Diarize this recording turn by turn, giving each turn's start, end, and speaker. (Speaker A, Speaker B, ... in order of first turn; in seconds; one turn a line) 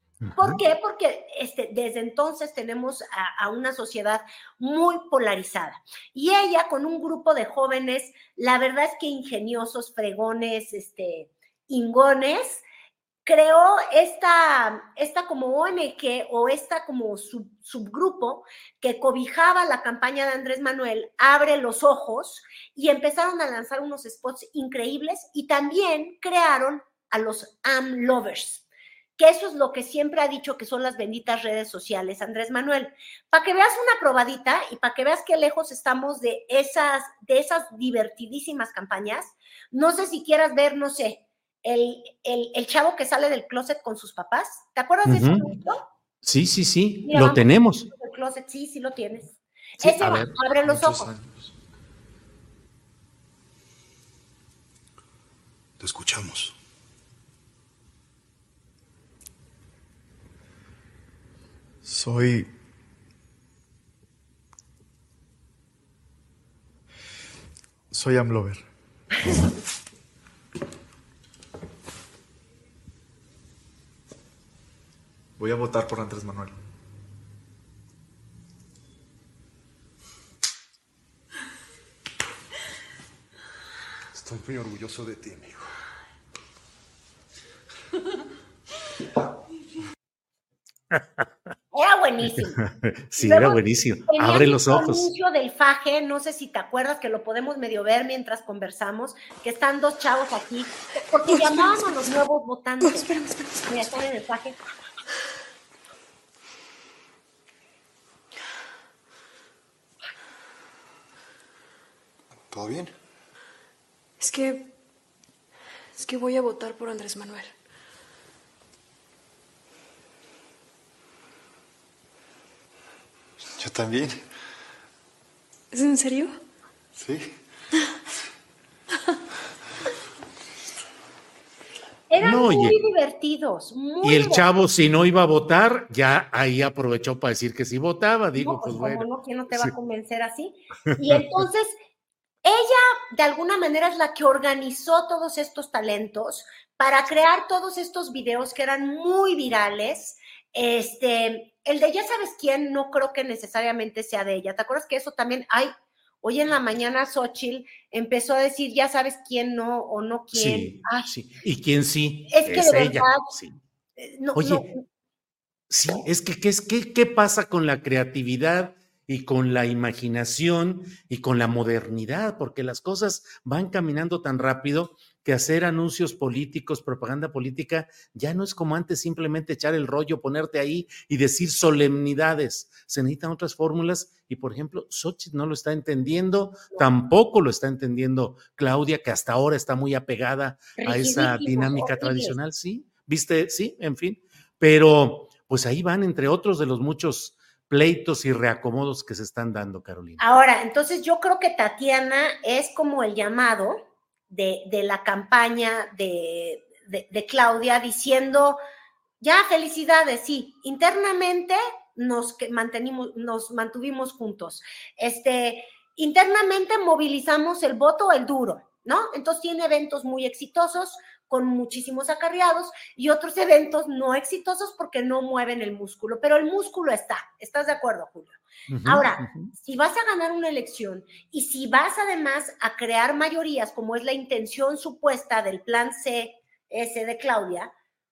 Speaker A: 0.2-0.6
Speaker B: 0.3-12.6
Speaker B: 13.2-28.6
Speaker B: 29.2-45.8
Speaker A: 45.0-45.5
Speaker A: 46.2-47.9
Speaker B: 47.0-51.1
Speaker A: 49.8-50.3
Speaker C: 50.6-51.4
Speaker C: 55.8-56.5
Speaker C: 84.1-85.6
Speaker A: 90.9-91.2
Speaker B: 91.7-92.6
Speaker A: 92.4-95.1
Speaker B: 93.2-103.1
Speaker D: 101.3-101.9
Speaker D: 102.8-103.9
Speaker B: 103.7-104.8
Speaker C: 112.5-112.9
Speaker D: 114.2-114.7
Speaker D: 115.9-117.5
Speaker C: 123.6-124.2
Speaker D: 125.7-126.4
Speaker C: 127.0-127.3
Speaker B: 132.1-134.5
Speaker A: 132.2-132.8
Speaker A: 134.0-139.7
Speaker B: 138.3-141.7
Speaker A: 140.9-141.2
Speaker B: 142.4-161.1
Speaker A: 160.3-163.6
Speaker B: 162.3-163.2
Speaker B: 164.0-164.8
Speaker A: 164.3-164.7
Speaker A: 165.7-200.3
Speaker B: 190.8-192.3
Speaker B: 200.2-208.6
Speaker B: 209.2-237.7
Speaker A: 228.7-229.5